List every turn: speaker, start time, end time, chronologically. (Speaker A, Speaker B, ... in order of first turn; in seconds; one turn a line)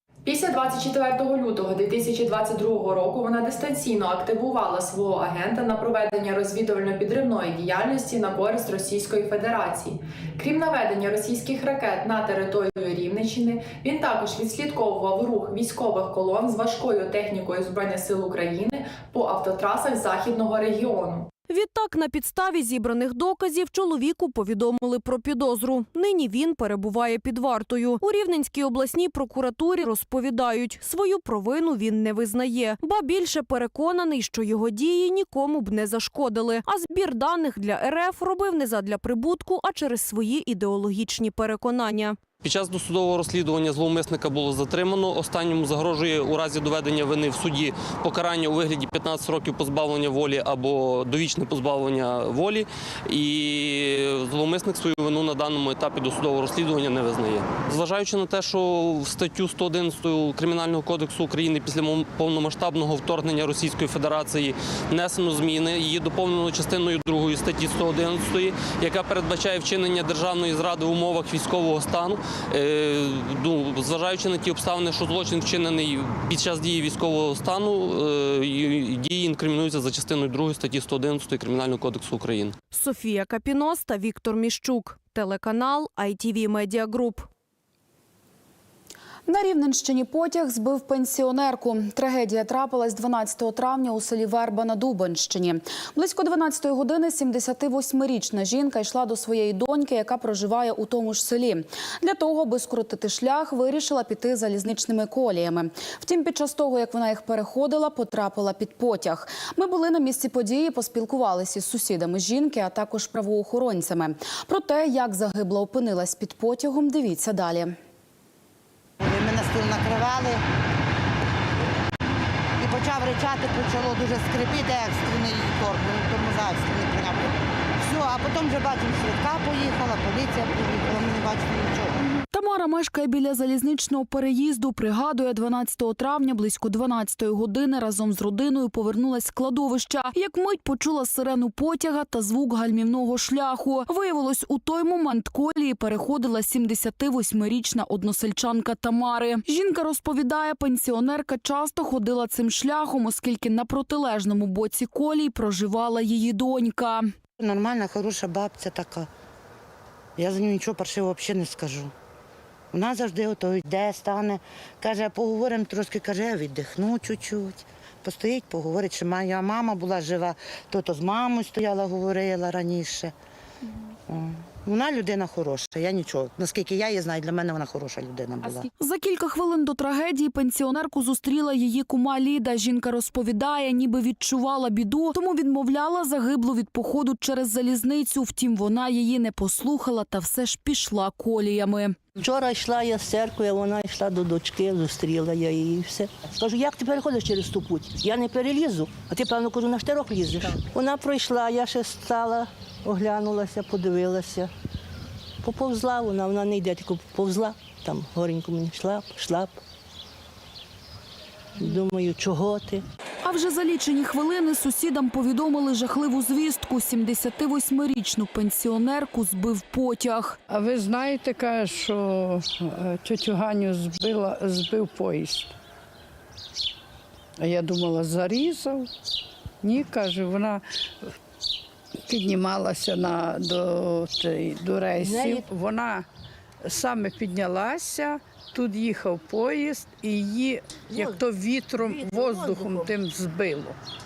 Speaker A: 0.2-21.3
Speaker B: 21.5-42.2
Speaker C: 42.4-82.5
Speaker B: 82.7-87.3
Speaker D: 89.2-117.8
Speaker E: 119.0-120.4
Speaker E: 122.6-132.0
Speaker D: 132.3-157.1
Speaker E: 157.4-159.1
Speaker E: 160.2-161.9
Speaker E: 162.7-173.1
Speaker E: 174.1-178.7
Speaker D: 178.8-192.0
Speaker F: 192.2-204.5
Speaker F: 205.4-209.6
Speaker F: 211.6-212.8
Speaker D: 213.2-220.4
Speaker G: 220.5-225.5
Speaker G: 227.4-228.9
Speaker G: 229.6-230.6
Speaker G: 232.1-236.0
Speaker F: 235.0-235.4
Speaker G: 236.6-243.8
Speaker F: 241.9-243.0